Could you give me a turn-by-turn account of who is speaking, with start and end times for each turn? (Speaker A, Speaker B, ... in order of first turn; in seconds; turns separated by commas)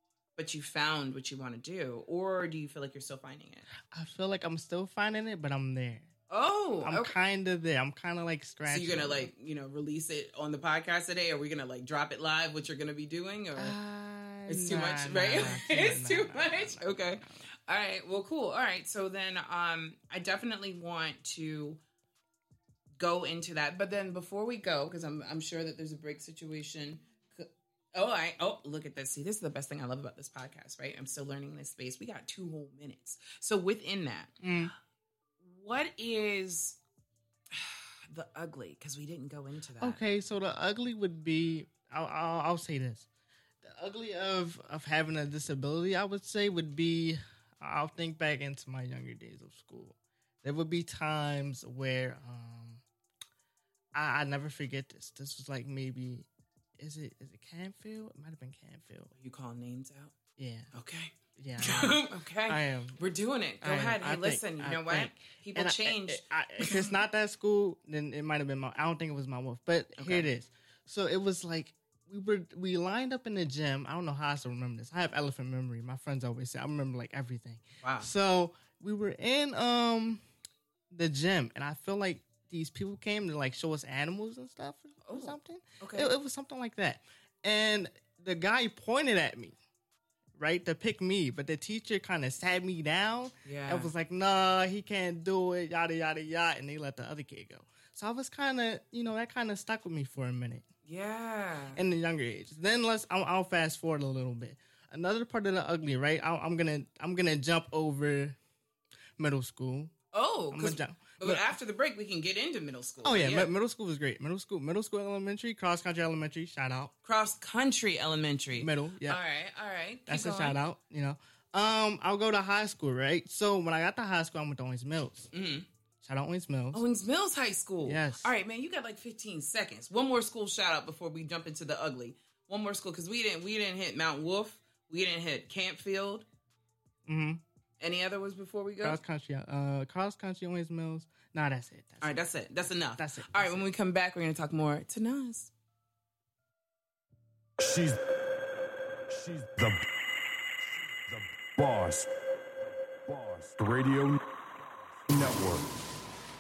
Speaker A: 0.4-3.7, Speaker B: 3.9-6.1, Speaker A: 6.3-7.2, Speaker B: 6.8-9.3, Speaker A: 8.7-13.8, Speaker B: 13.6-17.3, Speaker A: 14.5-21.8, Speaker A: 23.0-34.4, Speaker B: 34.4-34.7, Speaker A: 35.4-36.8, Speaker A: 37.5-40.0, Speaker B: 39.8-43.1, Speaker B: 43.6-52.8, Speaker B: 53.9-56.3, Speaker B: 56.8-59.1, Speaker A: 59.2-60.1, Speaker B: 60.4-60.7, Speaker A: 60.7-66.9, Speaker B: 61.4-63.0, Speaker B: 63.6-80.2, Speaker A: 70.0-70.3, Speaker A: 77.8-78.1, Speaker B: 80.9-89.6, Speaker A: 85.0-86.1, Speaker B: 90.3-100.7, Speaker A: 93.5-93.9, Speaker A: 100.9-101.8, Speaker B: 101.8-108.4, Speaker B: 109.2-109.9, Speaker A: 110.1-113.5, Speaker B: 110.5-111.5, Speaker B: 113.0-116.9, Speaker A: 117.0-120.6, Speaker B: 118.6-119.2, Speaker B: 120.1-125.3, Speaker A: 125.3-125.7, Speaker B: 126.0-126.8, Speaker A: 126.7-136.3, Speaker B: 127.8-128.3, Speaker B: 137.1-137.4, Speaker A: 137.8-139.0, Speaker B: 138.8-142.1, Speaker A: 142.0-145.5, Speaker B: 143.0-143.6, Speaker C: 147.6-148.0, Speaker C: 149.1-149.8, Speaker C: 151.1-152.1, Speaker C: 153.1-154.2, Speaker C: 155.1-155.8